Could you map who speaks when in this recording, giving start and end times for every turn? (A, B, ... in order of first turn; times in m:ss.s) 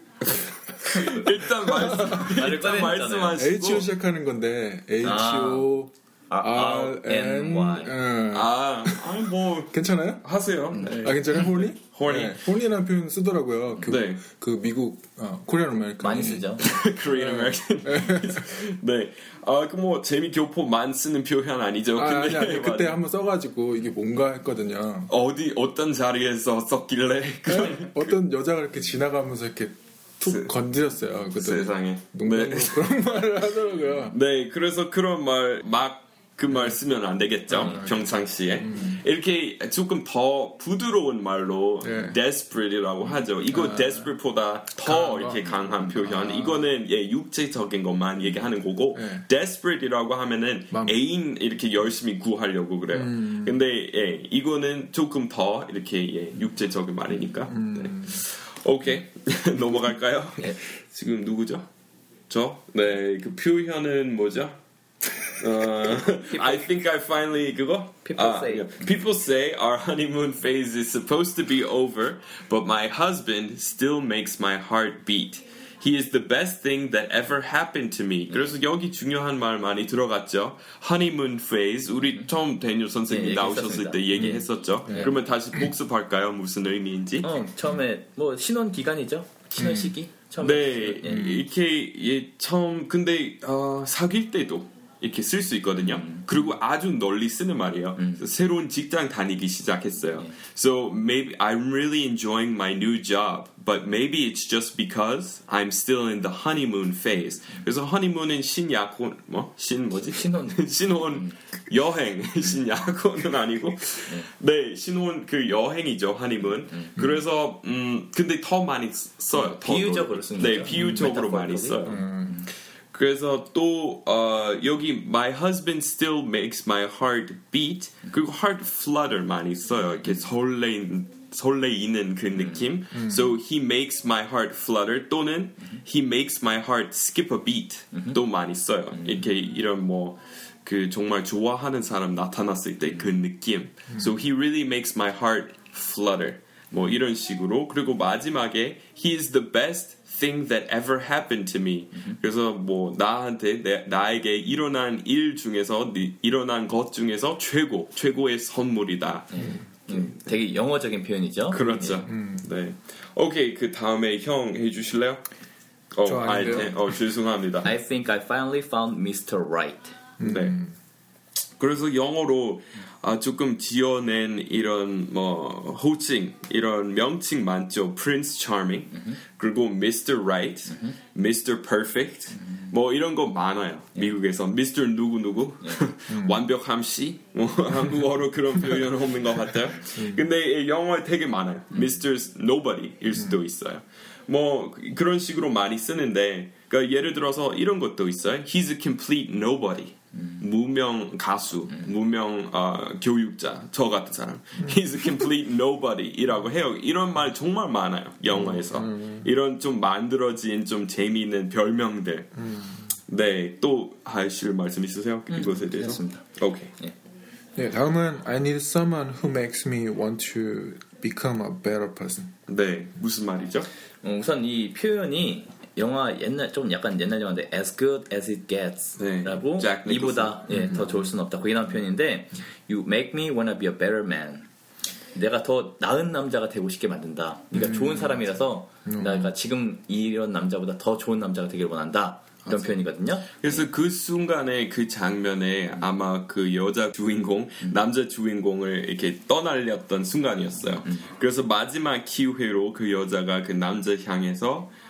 0:00.2-0:03.9 A
0:00.5-0:02.3 B
0:02.0-0:03.4 C
0:03.3-0:10.2 B
0:05.0-0:05.7 C
0:06.3-0:08.0 C
0:08.3-0:12.4 A
0:10.8-0:11.2 C
0:10.8-0:18.4 B
0:13.8-0:14.2 A
0:16.0-0:16.8 C
0:16.6-0:23.0 A
0:21.9-0:25.1 B
0:25.1-0:28.1 A
0:27.5-0:34.2 B
0:30.2-0:30.5 A
0:31.4-0:33.2 A
0:34.1-1:01.7 A
0:37.5-0:39.0 B
0:41.8-0:42.2 B
0:43.5-0:44.1 B
0:44.8-0:46.6 B
0:48.9-0:49.2 B
0:50.7-0:51.0 B
0:52.9-0:53.6 B
0:57.5-0:58.2 B
1:02.3-1:04.5 A
1:05.3-1:27.3 A
1:06.3-1:06.7 C
1:08.0-1:08.8 C
1:23.1-1:25.2 C
1:27.2-1:31.4 C
1:30.4-2:02.2 A
1:31.0-1:31.4 B
1:35.8-1:36.2 C
1:38.0-1:38.2 C
1:50.0-1:50.6 C
1:59.3-2:02.5 C
2:00.7-2:01.1 B
2:01.8-2:02.4 B
2:02.9-2:40.1 A
2:12.9-2:13.3 B
2:39.3-2:42.1 C
2:41.5-2:45.2 A
2:42.1-2:42.5 B
2:45.9-2:47.7 A
2:46.0-2:46.8 B
2:47.6-2:50.0 C
2:50.2-2:50.7 B
2:50.2-2:50.6 A
2:51.6-3:32.3 A
3:02.4-3:02.7 C
3:06.1-3:06.4 B
3:09.9-3:10.2 B
3:20.2-3:20.4 C
3:28.3-3:29.3 B
3:32.4-3:32.8 B
3:33.1-3:36.7 A
3:35.3-3:36.2 C
3:37.6-3:42.3 B
3:42.5-3:43.7 A
3:44.0-3:54.5 C
3:49.0-3:50.4 A
3:50.5-3:50.9 B
3:55.1-4:03.6 C
3:57.5-3:58.2 B
3:58.8-3:59.3 B
4:03.4-4:14.7 A